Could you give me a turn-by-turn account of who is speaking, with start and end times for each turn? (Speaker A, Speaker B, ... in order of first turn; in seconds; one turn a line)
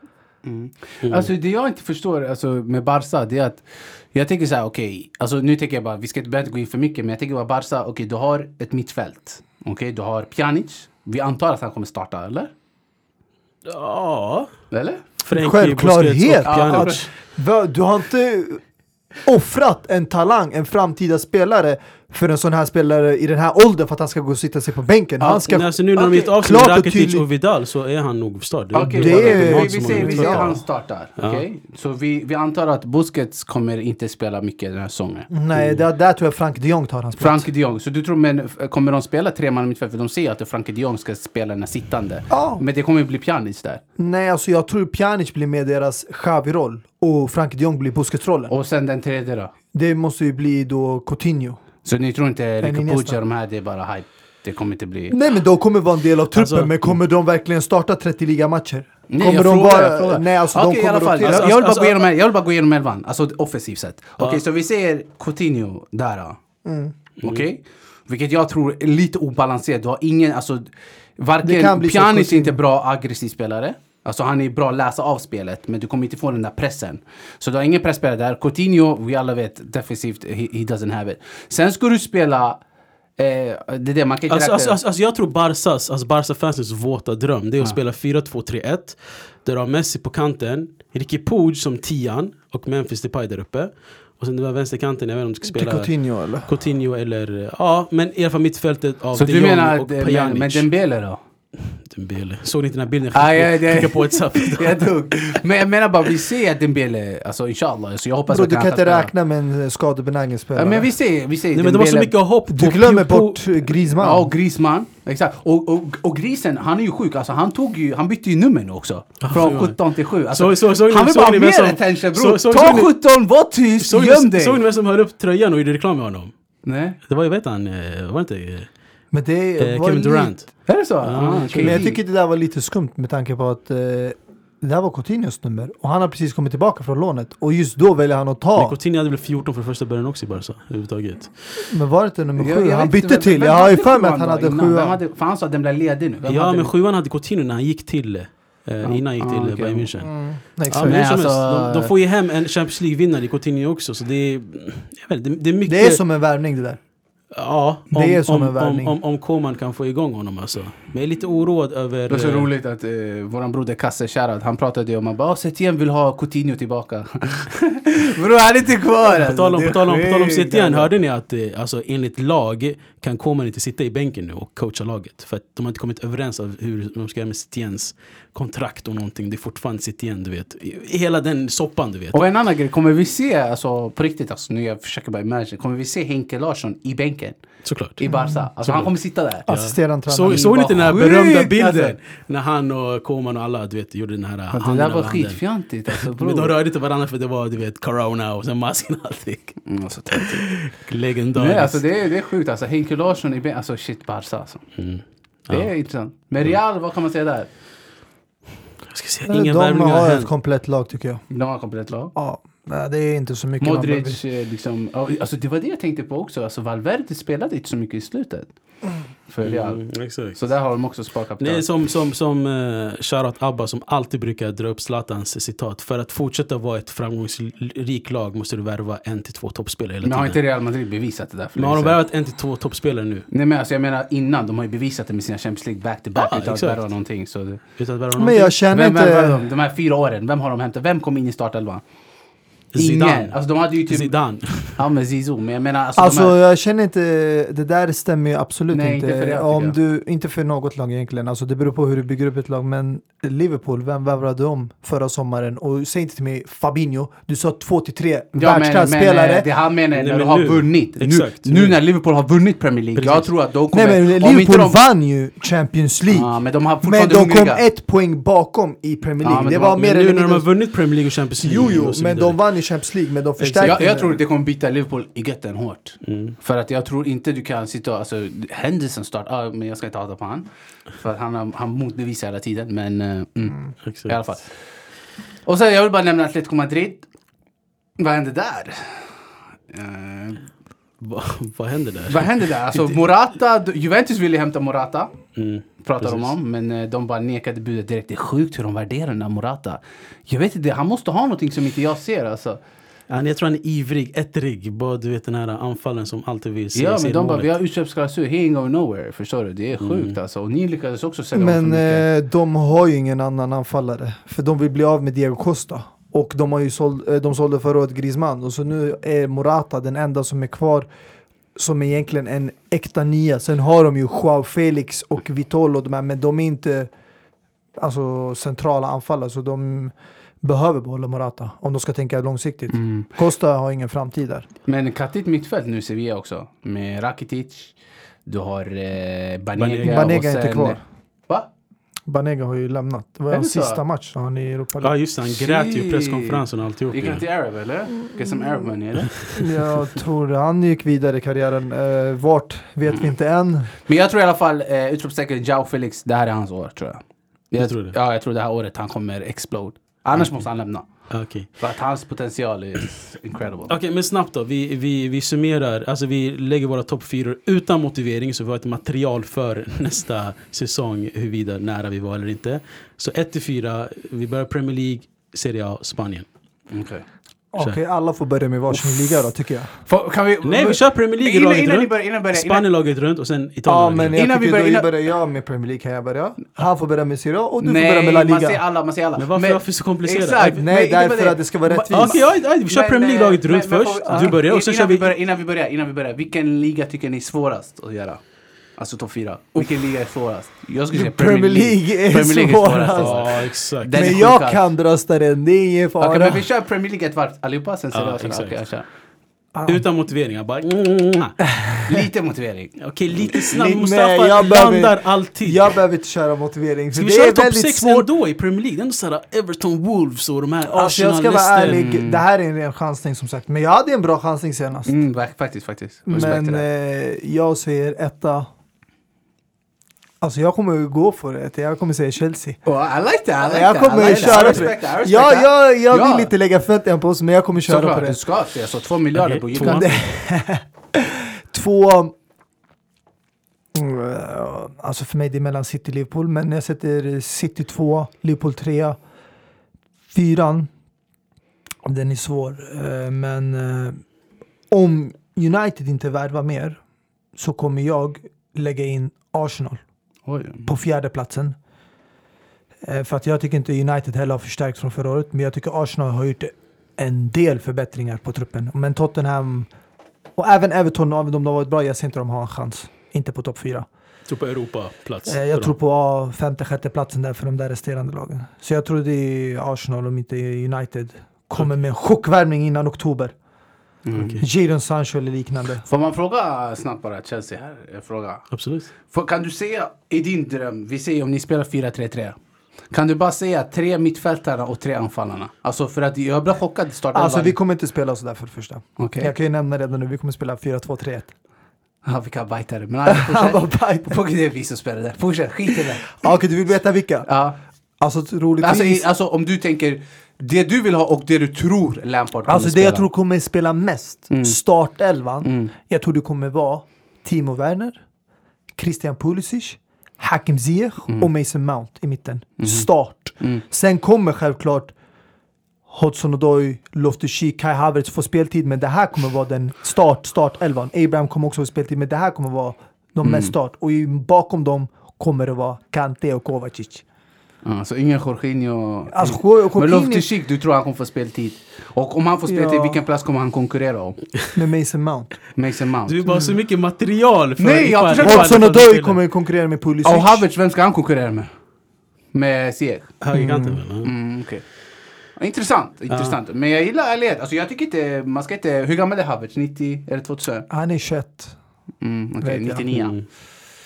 Speaker A: 0.4-12.5
Speaker B: 1.0-1.3
Speaker B: 13.6-14.5
Speaker A: 14.7-15.0
Speaker B: 15.2-17.1
Speaker C: 15.3-18.6
Speaker A: 16.4-17.0
Speaker C: 19.2-25.7
Speaker A: 25.2-26.3
Speaker B: 25.4-30.6
Speaker C: 26.4-27.2
Speaker A: 28.7-35.3
Speaker C: 28.8-30.6
Speaker B: 31.2-31.4
Speaker C: 35.3-37.5
Speaker A: 37.2-43.8
Speaker C: 42.3-42.6
Speaker C: 44.0-48.5
Speaker A: 48.5-49.5
Speaker C: 49.7-51.6
Speaker A: 51.8-55.2
Speaker C: 52.6-53.2
Speaker C: 55.1-61.5
Speaker B: 56.3-57.0
Speaker A: 59.1-66.4
Speaker B: 61.2-62.1
Speaker C: 66.6-66.9
Speaker B: 67.2-67.5
Speaker A: 67.2-82.6
Speaker C: 71.4-72.6
Speaker A: 83.2-84.8
Speaker B: 84.3-95.9
Speaker C: 95.5-96.5
Speaker B: 96.4-100.7
Speaker A: 99.1-101.2
Speaker B: 101.7-104.9
Speaker A: 103.1-109.1
Speaker C: 108.3-110.9
Speaker A: 110.5-112.1
Speaker B: 111.5-113.6
Speaker C: 112.5-114.3
Speaker A: 114.0-124.6
Speaker B: 119.2-119.8
Speaker B: 120.3-122.9
Speaker B: 123.8-126.3
Speaker A: 126.7-127.0
Speaker B: 127.0-128.7
Speaker C: 129.1-130.3
Speaker B: 129.6-130.5
Speaker A: 130.7-132.0
Speaker B: 131.0-131.8
Speaker C: 131.6-138.8
Speaker B: 138.6-141.3
Speaker C: 141.7-145.0
Speaker A: 142.4-146.7
Speaker B: 146.2-150.1
Speaker A: 148.8-149.9
Speaker C: 150.0-151.0
Speaker B: 150.7-156.0
Speaker A: 150.8-151.9
Speaker C: 155.7-156.8
Speaker B: 157.3-162.5
Speaker C: 157.9-158.9
Speaker A: 162.1-170.9
Speaker B: 169.1-182.2
Speaker A: 182.1-187.4
Speaker B: 187.6-188.0
Speaker A: 188.0-189.5
Speaker B: 188.6-188.9
Speaker C: 189.5-190.5
Speaker B: 189.5-201.8
Speaker A: 190.2-192.0
Speaker A: 194.5-196.5
Speaker A: 199.6-200.6
Speaker A: 201.3-204.6
Speaker B: 204.8-205.7
Speaker A: 205.5-207.5
Speaker B: 208.9-210.3
Speaker C: 209.3-211.2
Speaker A: 211.3-212.1
Speaker C: 212.1-214.2
Speaker A: 213.6-218.5
Speaker A: 219.3-219.8
Speaker B: 219.4-220.4
Speaker A: 220.3-221.7
Speaker B: 221.4-230.4
Speaker A: 230.0-232.0
Speaker B: 231.6-233.3
Speaker A: 233.3-237.6
Speaker B: 236.2-236.8
Speaker B: 237.8-238.6
Speaker C: 238.2-239.4
Speaker A: 238.7-241.8
Speaker B: 242.7-244.8
Speaker A: 242.8-244.2
Speaker A: 244.7-246.3
Speaker C: 245.9-259.5
Speaker A: 248.7-249.8
Speaker A: 258.3-264.8
Speaker B: 259.9-261.8
Speaker B: 262.9-263.3
Speaker C: 263.7-270.5
Speaker A: 266.1-267.6
Speaker A: 269.2-269.7
Speaker B: 269.3-272.4
Speaker C: 271.4-274.2
Speaker B: 273.4-273.8
Speaker A: 273.6-284.4
Speaker B: 276.0-276.4
Speaker B: 283.8-284.2
Speaker A: 285.4-287.0
Speaker A: 288.0-289.1
Speaker A: 289.7-290.4
Speaker B: 291.0-293.0
Speaker A: 292.1-295.1
Speaker B: 295.4-296.3
Speaker A: 295.8-302.6
Speaker B: 303.1-307.5
Speaker A: 306.7-312.0
Speaker B: 309.8-310.1
Speaker C: 311.3-320.9
Speaker C: 321.6-326.9
Speaker C: 327.8-334.5
Speaker A: 332.7-333.1
Speaker A: 334.7-337.7
Speaker A: 338.2-341.5
Speaker B: 339.6-340.1
Speaker C: 339.8-340.8
Speaker C: 342.1-344.9
Speaker A: 343.3-343.8
Speaker B: 344.8-347.2
Speaker A: 345.3-349.2
Speaker B: 349.1-349.4
Speaker C: 349.3-353.7
Speaker A: 353.9-360.9
Speaker B: 357.6-357.9
Speaker B: 361.1-361.5
Speaker A: 361.6-363.7
Speaker B: 363.7-376.2
Speaker A: 376.7-377.0
Speaker C: 377.5-379.7
Speaker A: 379.9-382.7
Speaker B: 380.4-384.2
Speaker C: 383.6-388.6
Speaker A: 384.1-384.9
Speaker A: 387.6-398.2
Speaker B: 389.2-390.6
Speaker C: 390.4-392.2
Speaker B: 391.9-395.1
Speaker A: 398.8-404.6
Speaker C: 400.9-403.2
Speaker B: 402.9-404.2
Speaker C: 403.9-406.4
Speaker A: 406.0-408.9
Speaker B: 407.9-408.6
Speaker C: 409.5-409.8
Speaker B: 409.6-411.4
Speaker C: 411.5-411.8
Speaker A: 411.9-412.8
Speaker B: 412.8-415.7
Speaker C: 413.2-418.1
Speaker B: 416.9-421.9
Speaker C: 420.7-424.9
Speaker A: 421.6-422.2
Speaker A: 424.9-426.6
Speaker C: 426.1-428.5
Speaker C: 430.2-432.6
Speaker A: 432.6-436.3
Speaker C: 433.4-438.2
Speaker B: 434.1-434.7
Speaker A: 437.6-440.0
Speaker B: 439.1-440.0
Speaker C: 439.6-442.1
Speaker C: 443.7-449.0
Speaker C: 450.1-450.7
Speaker C: 451.8-454.0
Speaker C: 454.7-456.8
Speaker C: 457.4-459.8
Speaker A: 460.2-460.7
Speaker C: 460.6-461.6
Speaker C: 462.8-469.7
Speaker C: 470.4-473.9
Speaker B: 474.3-475.7
Speaker C: 475.3-483.3
Speaker A: 484.0-484.4
Speaker B: 484.1-484.4
Speaker C: 484.4-485.8
Speaker A: 485.9-488.4
Speaker B: 488.5-488.9
Speaker A: 489.0-492.4
Speaker A: 492.9-497.6
Speaker C: 497.1-501.3
Speaker A: 499.0-499.3
Speaker A: 502.0-506.1
Speaker C: 503.1-504.2
Speaker C: 506.1-507.3
Speaker A: 507.2-507.6
Speaker C: 508.0-509.1
Speaker A: 508.6-513.1
Speaker C: 512.5-518.0
Speaker A: 514.3-514.6
Speaker A: 515.4-515.7
Speaker C: 518.8-524.9
Speaker A: 522.6-522.9
Speaker C: 525.9-537.0
Speaker A: 533.2-533.5
Speaker A: 537.6-544.2
Speaker C: 539.1-540.3
Speaker C: 542.5-543.0
Speaker C: 544.5-545.4
Speaker A: 545.5-546.2
Speaker B: 546.1-549.2
Speaker C: 546.2-546.5
Speaker A: 547.6-548.6
Speaker C: 548.2-550.4
Speaker A: 550.0-551.5
Speaker A: 552.3-553.1
Speaker B: 553.2-554.1
Speaker C: 553.3-553.8
Speaker A: 554.0-554.6
Speaker A: 555.4-560.7
Speaker B: 556.1-556.4
Speaker C: 560.7-561.5
Speaker A: 562.0-563.2
Speaker C: 562.4-562.8
Speaker B: 562.9-563.2